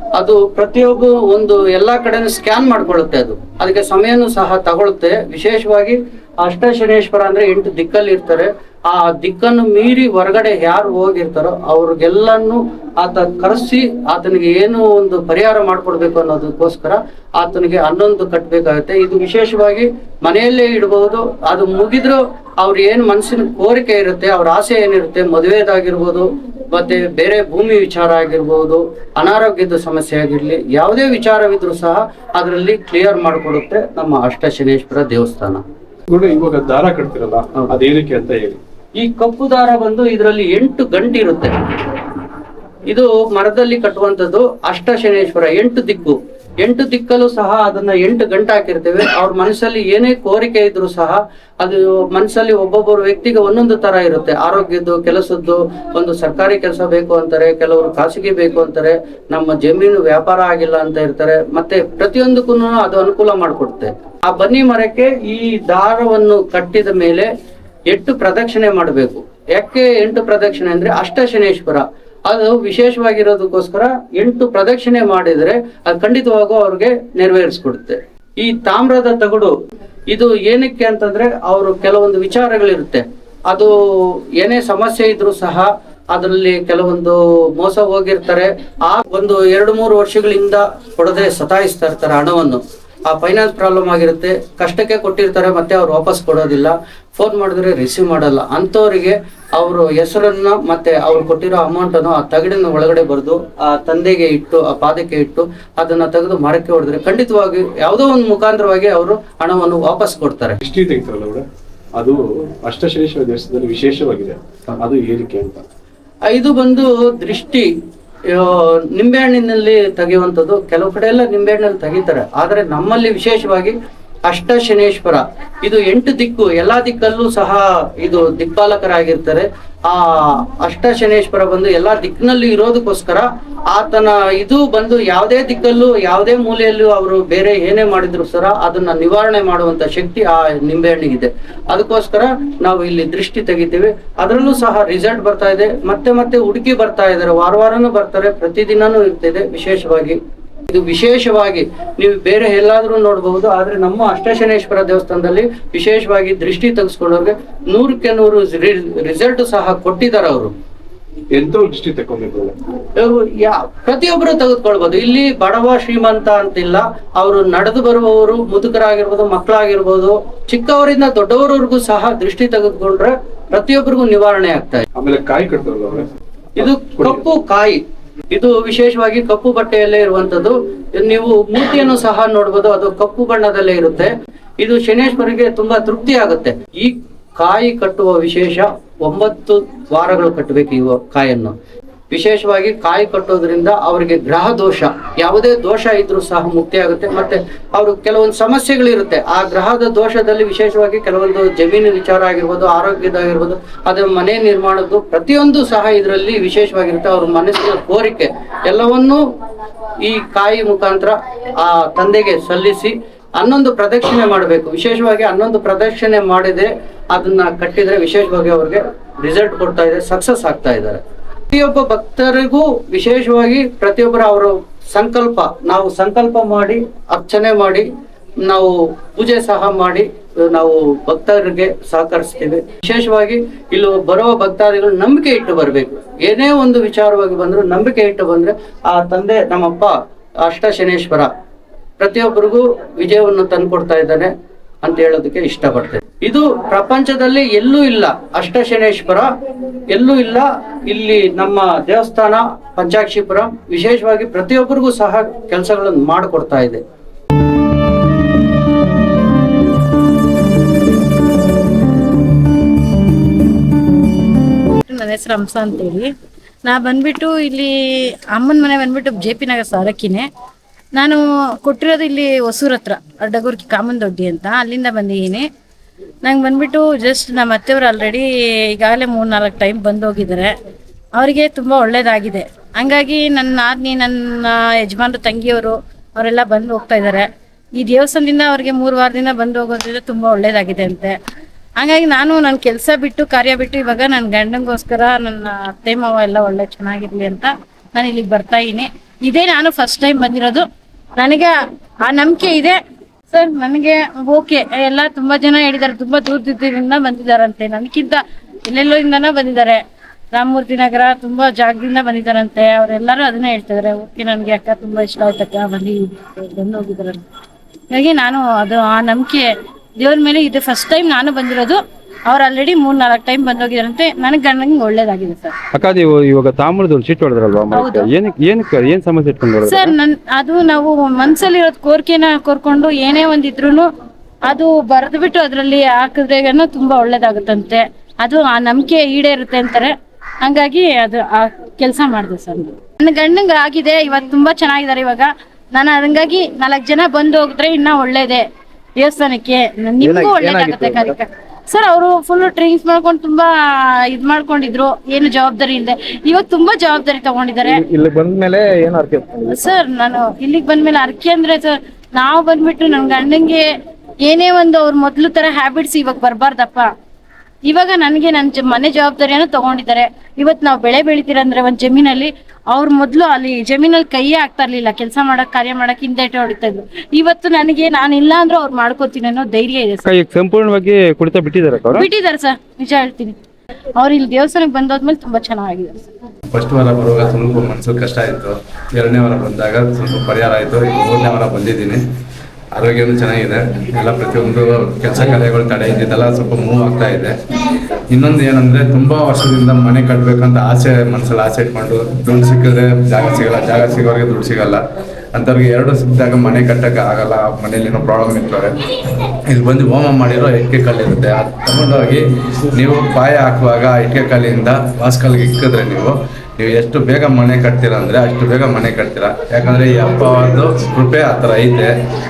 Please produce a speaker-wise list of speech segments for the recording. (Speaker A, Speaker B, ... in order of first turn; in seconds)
Speaker A: 0.1-35.6, 39.0-41.6, 42.9-67.3, 67.9-79.5, 80.1-83.7, 84.4-110.6, 116.3-117.7, 118.3-123.7, 124.3-150.2, 150.7-160.5, 163.0-174.8, 176.6-177.8, 178.3-191.5, 192.1-209.2, 210.0-221.0, 221.5-227.9, 228.5-239.9, 240.5-241.3, 242.0-244.3, 244.8-249.3, 249.9-256.8
Speaker B: 36.1-38.6, 110.6-111.4, 112.0-115.6, 161.3-162.6, 174.9-177.3
Speaker C: 264.9-266.1, 266.6-270.3, 270.9-275.5, 276.2-280.5, 281.1-287.2, 287.8-291.1, 291.8-300.6, 301.2-301.5, 302.0-302.8, 303.3-309.8, 310.3-317.2, 317.9-325.5, 327.7-328.1, 329.6-333.9, 334.4-348.4, 349.0-357.8, 359.4-363.7, 364.2-366.9, 367.6-380.1, 381.9-383.4, 384.0-386.1
Speaker D: 325.7-329.9, 380.1-382.1
Speaker E: 350.0-351.1, 357.7-359.3
Speaker F: 386.5-392.0, 392.7-397.4, 398.1-404.8, 405.3-408.8, 409.5-421.9